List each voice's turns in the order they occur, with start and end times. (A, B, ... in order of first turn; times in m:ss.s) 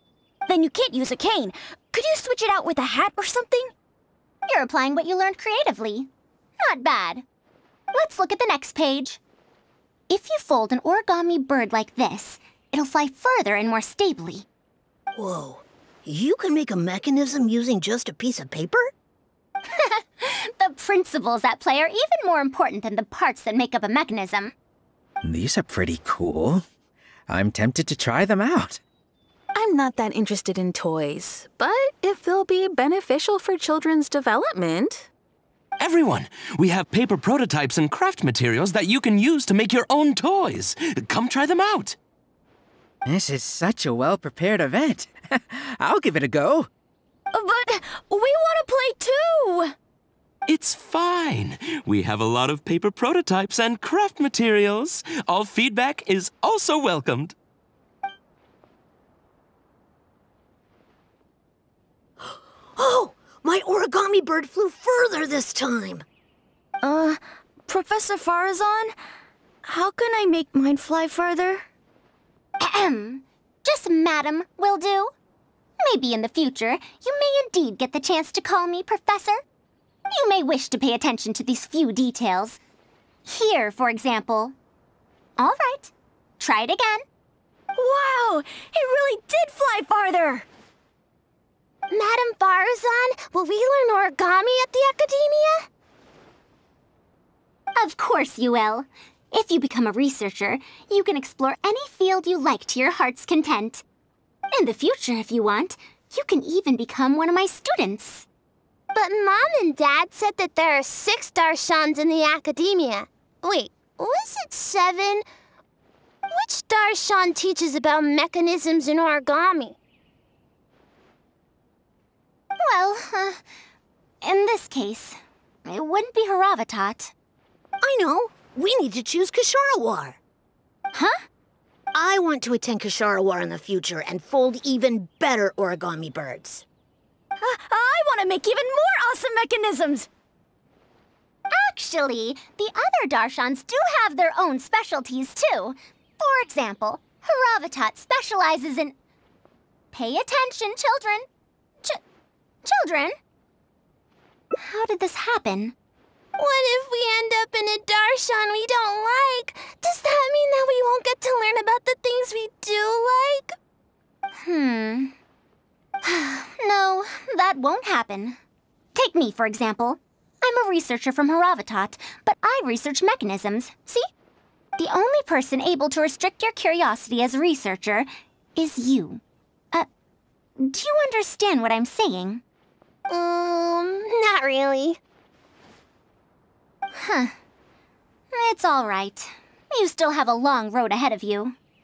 0:00.5-0:03.7 A
0:04.5-0:06.1 B
0:06.6-0:07.2 B
0:07.9-0:09.2 B
0:10.1-0:14.5 B
0:15.2-0:18.9 C
0:19.7-0:24.5 B
0:25.2-0:26.6 D
0:27.3-0:28.8 D
0:29.6-0:35.1 E
0:35.8-0:42.0 F
0:43.1-0:46.7 D
0:47.3-0:49.7 A
0:50.5-0:57.4 F
1:02.2-1:06.0 C
1:06.8-1:09.0 A
1:09.6-1:11.7 A
1:12.6-1:15.1 B
1:15.8-1:19.4 B
1:20.1-1:22.6 B
1:23.3-1:24.6 B
1:25.4-1:27.0 B
1:27.8-1:30.5 A
1:31.9-1:35.6 G
1:37.8-1:43.8 B
1:44.5-1:48.3 B
1:48.9-1:55.2 G
1:56.3-1:59.8 G
2:02.6-2:03.4 B
2:04.2-2:07.1 B
2:07.8-2:10.2 C
2:10.9-2:11.2 B
2:11.9-2:16.7 C
2:17.4-2:20.1 A
2:21.5-2:29.0 B
2:29.9-2:31.3 B
2:32.6-2:33.2 B
2:34.6-2:35.8 B
2:36.4-2:43.5 G
2:44.4-2:45.2 B
2:46.0-2:48.4 B
2:49.0-2:54.1 B
2:54.8-2:59.2 B
3:00.6-3:02.4 B
3:03.1-3:05.0 G
3:06.9-3:07.3 B
3:08.3-3:11.6 B